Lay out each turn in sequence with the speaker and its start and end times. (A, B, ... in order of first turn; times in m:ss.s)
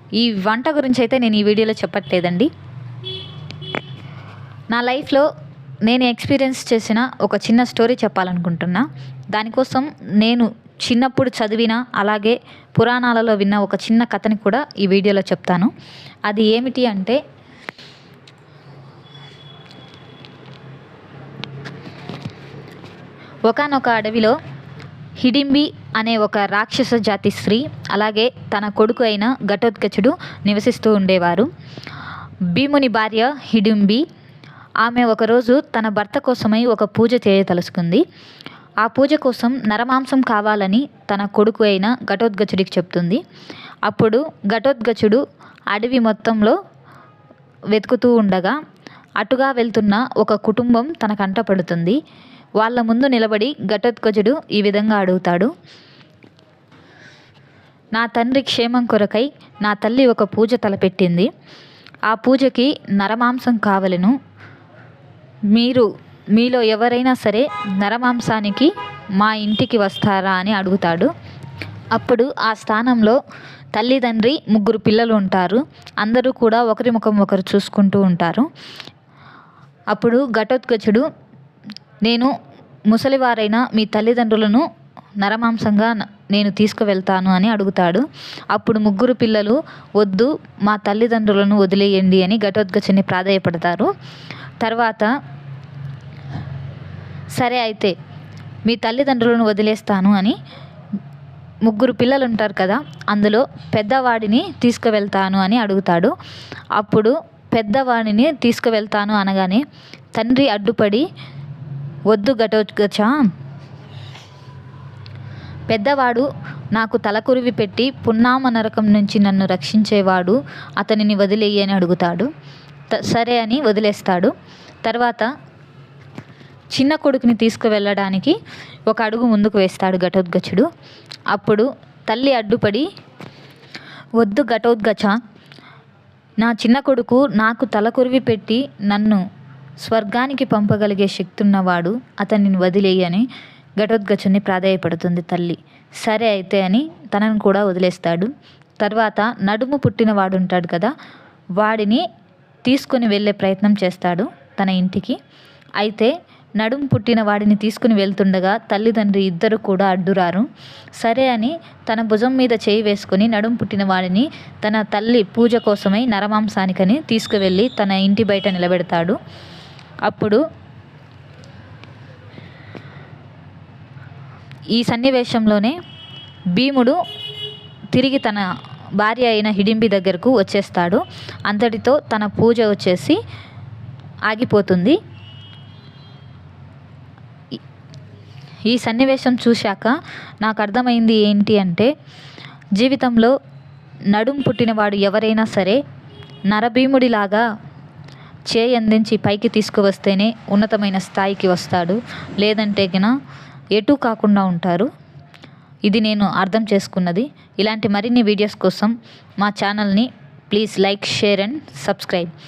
0:00.2-0:02.5 A
0:04.7-0:05.3 A
0:05.9-0:15.7 A
0:16.3-0:17.2 A
0:23.5-0:24.4 A
0:25.2-0:31.5 A
0:32.5-0:34.0 A
0:34.8-0:38.0 A
0:38.8-0:43.2 A
0:43.9-0:45.2 A
0:45.7-0:46.6 A
0:47.7-0:48.6 A
0:49.2-0:52.0 A
0:52.6-0:55.5 A
0:57.9-1:01.3 A
1:02.1-1:04.2 A
1:05.5-1:11.1 A
1:11.9-1:13.2 A
1:13.7-1:18.5 A
1:19.9-1:21.0 A
1:22.0-1:22.3 A
1:22.9-1:24.6 A
1:25.2-1:33.9 A
1:34.6-1:35.1 A
1:37.4-1:37.9 A
1:38.7-1:40.4 A
1:41.6-1:46.1 A
1:46.8-1:49.6 A
1:50.2-1:51.0 A
1:52.1-1:53.2 A
1:55.7-2:02.3 A
2:02.9-2:04.3 A
2:04.8-2:05.3 A
2:06.7-2:08.4 A
2:08.9-2:10.7 A
2:11.3-2:12.9 A
2:14.2-2:15.2 A
2:16.4-2:19.2 A
2:19.8-2:23.3 A
2:23.8-2:30.9 A
2:31.6-2:32.0 A
2:32.7-2:35.2 A
2:35.8-2:40.5 A
2:41.0-2:49.2 A
2:50.1-2:50.4 A
2:54.7-2:55.8 A
2:56.6-2:57.0 A
2:57.9-2:58.5 A
2:59.0-3:03.2 A
3:04.3-3:05.0 A
3:08.7-3:11.9 A
3:12.8-3:13.4 A
3:14.1-3:15.8 A
3:16.5-3:17.4 A
3:18.5-3:23.1 A
3:23.8-3:24.9 A
3:25.9-3:32.3 A